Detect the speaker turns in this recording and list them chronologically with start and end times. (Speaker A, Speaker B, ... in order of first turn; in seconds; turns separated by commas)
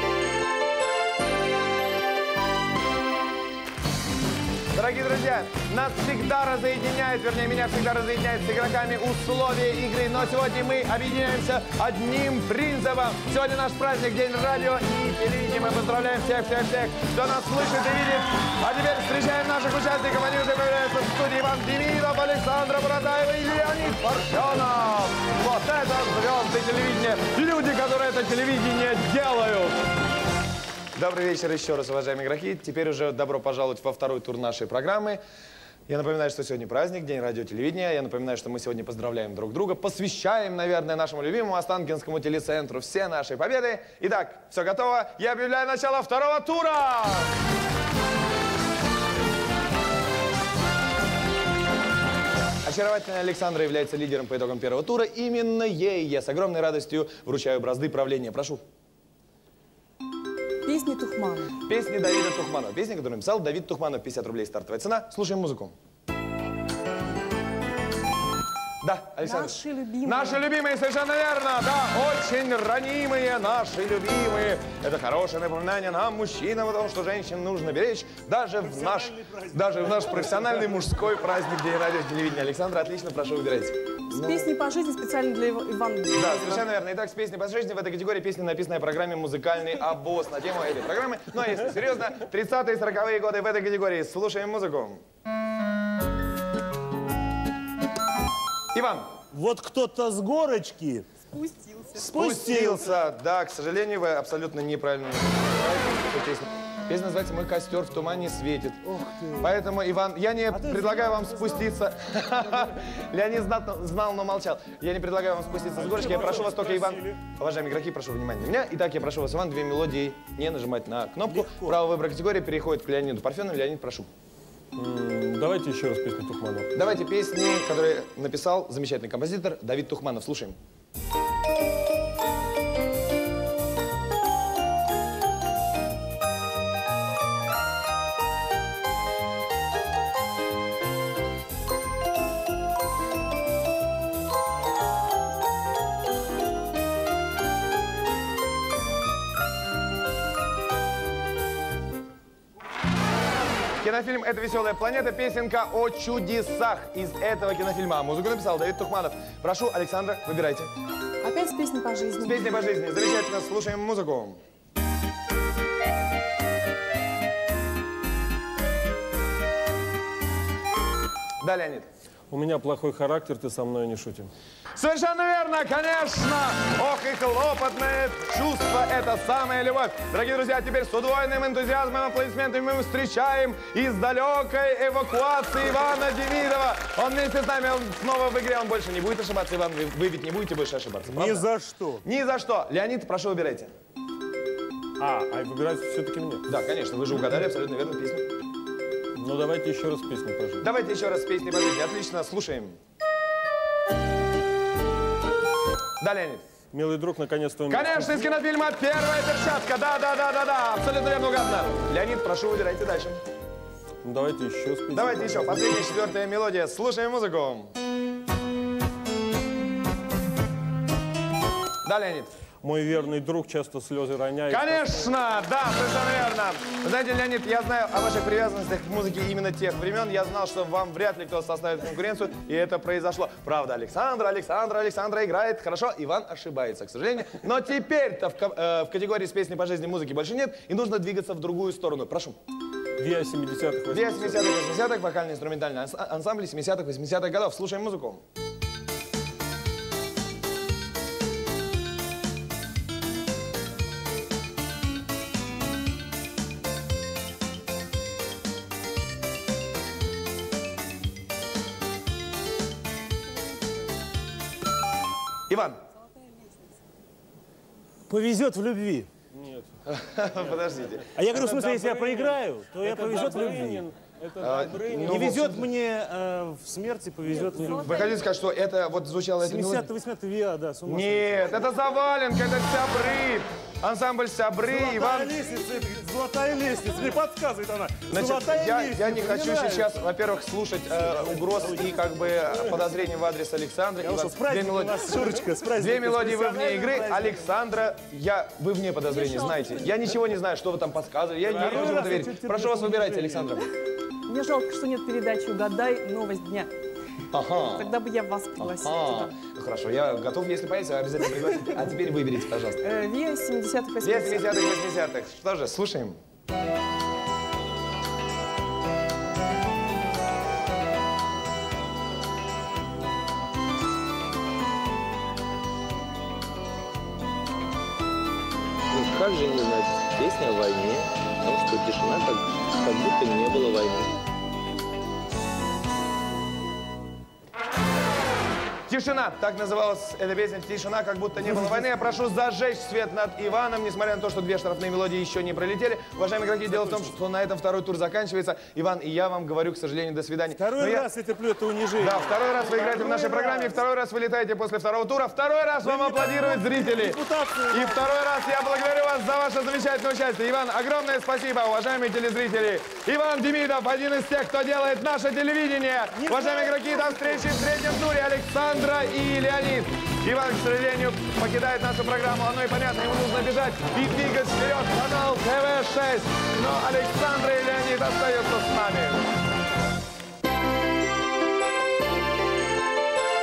Speaker A: 4.7-29.8, Speaker A: 30.9-35.2, Speaker A: 35.9-47.4, Speaker A: 52.6-58.6, Speaker B: 60.6-61.6, Speaker A: 61.7-65.7, Speaker A: 68.8-84.5, Speaker B: 69.2-70.4, Speaker C: 78.6-80.1, Speaker B: 84.1-86.7, Speaker A: 86.1-95.0, Speaker A: 98.7-99.1, Speaker C: 99.3-101.1, Speaker B: 101.3-102.1, Speaker C: 102.0-102.8, Speaker A: 102.1-108.8, Speaker C: 108.8-109.5, Speaker A: 109.4-124.1, Speaker C: 110.5-111.6, Speaker D: 115.8-117.2, Speaker C: 115.9-116.6, Speaker C: 121.3-121.8, Speaker D: 124.8-126.7, Speaker A: 126.7-130.6, Speaker A: 153.8-160.7, Speaker B: 161.2-162.5, Speaker A: 162.2-164.4, Speaker A: 171.4-171.9, Speaker D: 172.3-174.3, Speaker A: 174.8-191.5, Speaker C: 191.1-192.0, Speaker A: 192.0-193.7, Speaker D: 195.0-196.4, Speaker A: 196.5-198.3, Speaker D: 199.2-200.7, Speaker A: 200.6-202.8, Speaker A: 206.0-206.4, Speaker D: 206.7-208.2, Speaker A: 207.7-213.2, Speaker D: 214.0-216.0, Speaker A: 214.9-217.7, Speaker A: 221.8-222.3, Speaker D: 222.6-225.1, Speaker A: 224.5-242.4, Speaker D: 243.0-244.4, Speaker A: 243.9-248.2, Speaker A: 265.5-265.8, Speaker C: 268.1-269.1, Speaker D: 269.3-269.7, Speaker A: 269.9-271.1, Speaker C: 271.2-273.8, Speaker D: 271.2-275.3, Speaker A: 274.4-275.7, Speaker C: 275.0-278.1, Speaker B: 277.6-278.1, Speaker A: 277.7-279.9, Speaker C: 279.4-281.6, Speaker A: 280.9-285.3, Speaker C: 284.7-290.0, Speaker A: 288.1-295.1, Speaker C: 291.0-292.9, Speaker C: 294.0-297.5, Speaker A: 295.8-303.7, Speaker B: 299.1-300.1, Speaker C: 301.5-303.5, Speaker D: 301.6-301.9, Speaker B: 304.3-306.7, Speaker A: 307.3-307.9, Speaker B: 307.7-309.3, Speaker A: 308.6-312.8, Speaker B: 312.8-314.7, Speaker A: 314.0-316.2, Speaker A: 328.9-334.2, Speaker A: 338.9-351.1, Speaker C: 341.5-341.8, Speaker C: 350.5-353.8, Speaker A: 352.0-379.3, Speaker C: 355.8-358.0, Speaker C: 366.2-367.2